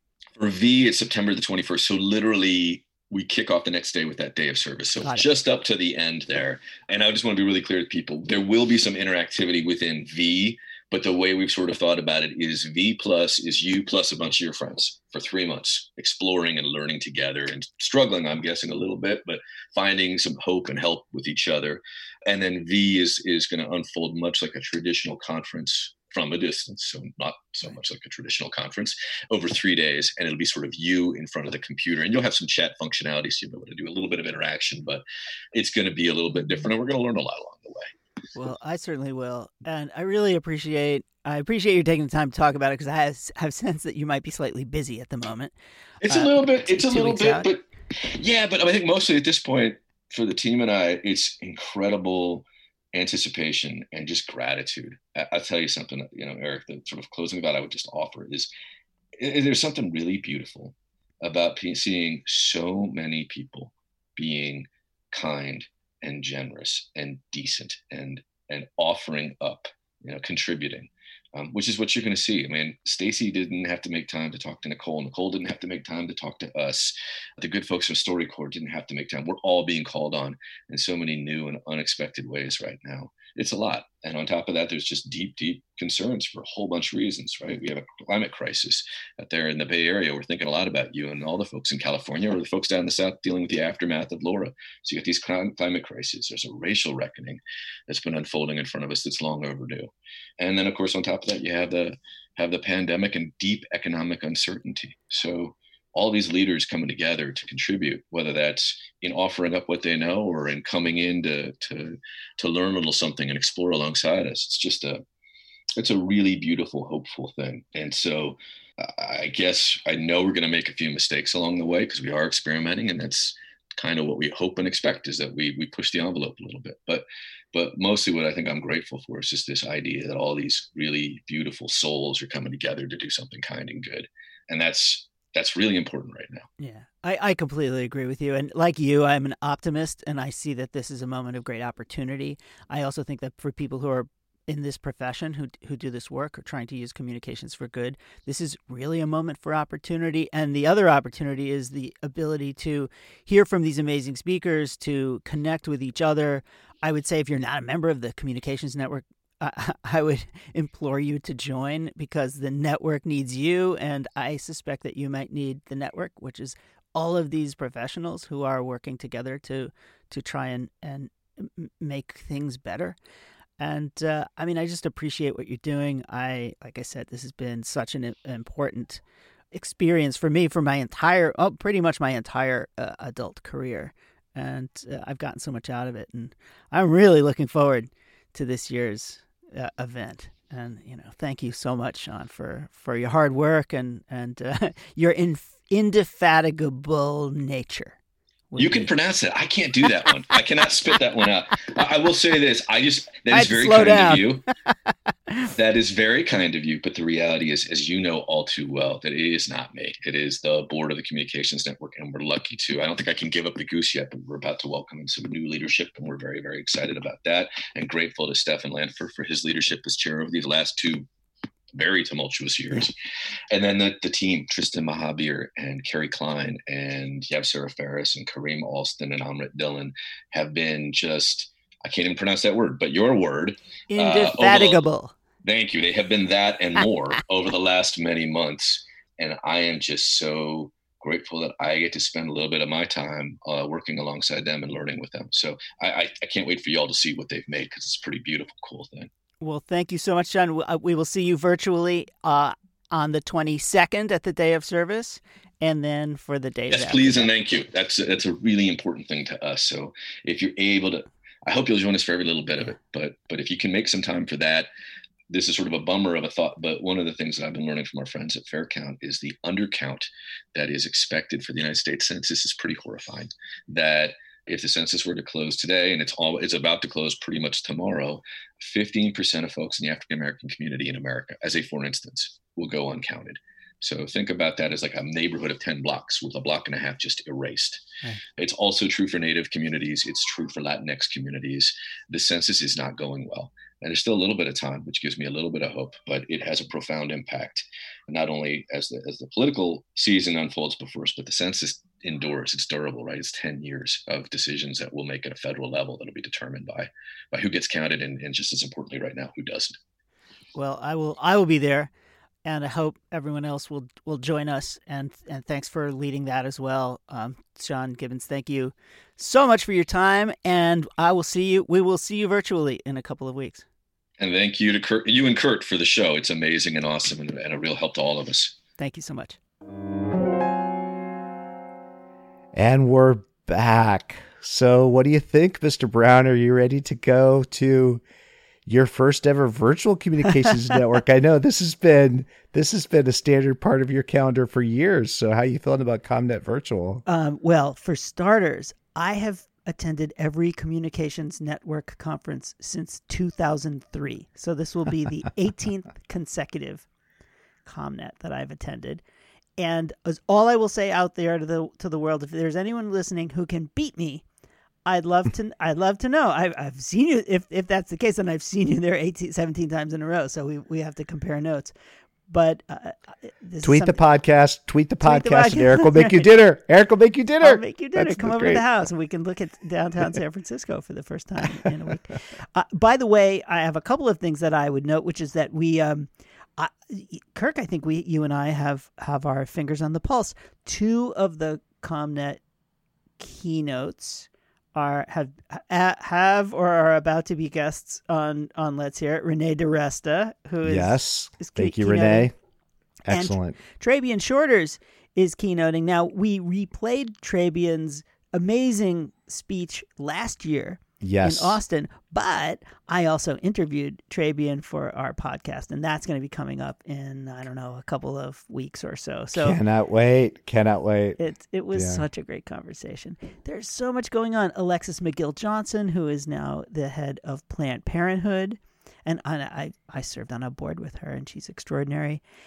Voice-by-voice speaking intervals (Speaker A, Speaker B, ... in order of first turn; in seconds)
Speaker A: 0.4-37.9, 46.0-58.5, 59.2-115.0, 115.8-136.5, 198.6-204.4, 205.5-221.1, 221.7-222.9, 223.5-234.8, 235.4-249.1, 256.7-264.7, 265.3-287.8, 288.4-309.8, 324.2-328.6
Speaker B: 38.4-45.5, 46.1-47.5, 136.6-173.0, 173.6-179.0, 179.5-198.0, 198.5-198.9, 203.3-204.4, 233.9-235.1, 249.4-257.3, 310.5-311.9, 312.4-323.6, 328.8-329.4, 347.1-356.9, 357.6-359.0, 359.6-364.2, 364.8-371.7, 372.3-374.0, 375.0-376.3, 377.4-392.4, 393.2-402.3, 403.1-419.6, 421.2-432.2
Speaker C: 332.5-338.0, 338.7-347.0, 373.6-378.6, 400.6-402.3, 403.1-403.6, 411.0-411.6, 419.3-421.2, 421.7-422.0